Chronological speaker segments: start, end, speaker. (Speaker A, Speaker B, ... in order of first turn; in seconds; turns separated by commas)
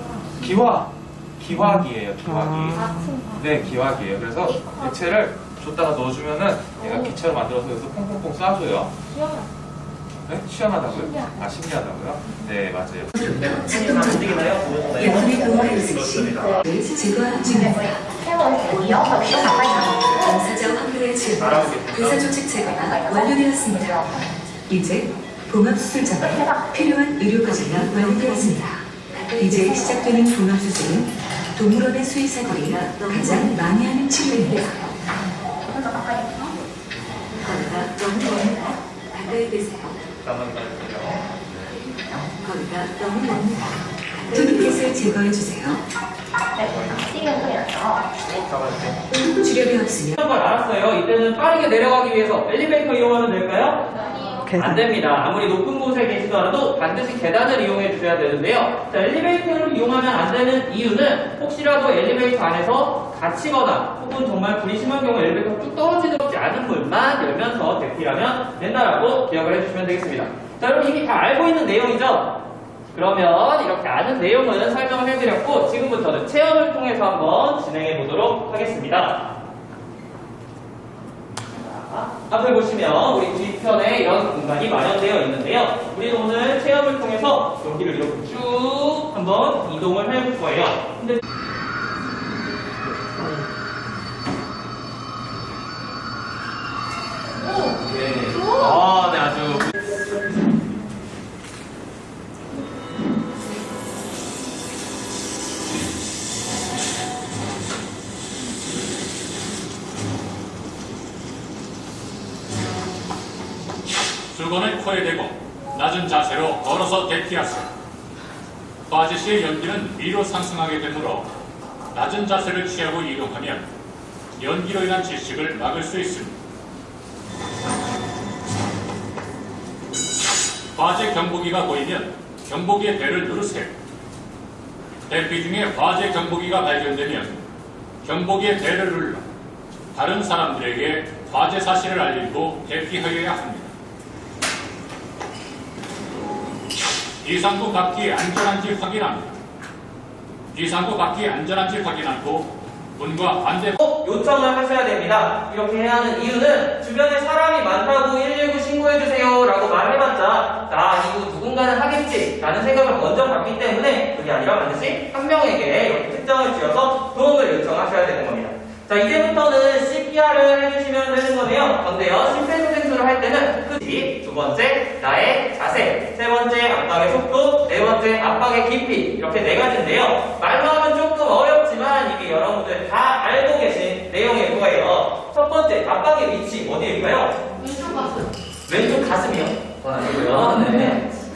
Speaker A: 0.3-9.0, Speaker A: 10.2-13.2, Speaker B: 13.2-14.3, Speaker C: 13.2-16.6, Speaker B: 15.0-18.1, Speaker D: 17.4-20.5, Speaker B: 18.6-24.0, Speaker C: 21.4-22.2, Speaker D: 22.5-24.3, Speaker B: 24.7-34.9, Speaker D: 26.1-27.2, Speaker D: 29.5-30.2, Speaker D: 35.7-36.5, Speaker B: 37.4-40.0, Speaker C: 40.2-41.4, Speaker B: 42.2-45.8, Speaker D: 46.5-48.1, Speaker C: 48.2-49.0, Speaker B: 49.1-50.2, Speaker C: 50.2-53.9, Speaker C: 54.4-72.4, Speaker C: 72.9-79.3, Speaker C: 81.5-91.2, Speaker C: 97.8-99.7, Speaker E: 114.3-117.7, Speaker E: 118.9-121.3, Speaker E: 121.9-123.7, Speaker E: 124.4-126.3, Speaker E: 130.7-133.7, Speaker E: 135.1-137.3, Speaker E: 138.0-139.2, Speaker E: 139.9-143.7, Speaker E: 147.2-149.3, Speaker E: 150.5-153.8, Speaker C: 153.8-187.4, Speaker C: 188.7-191.1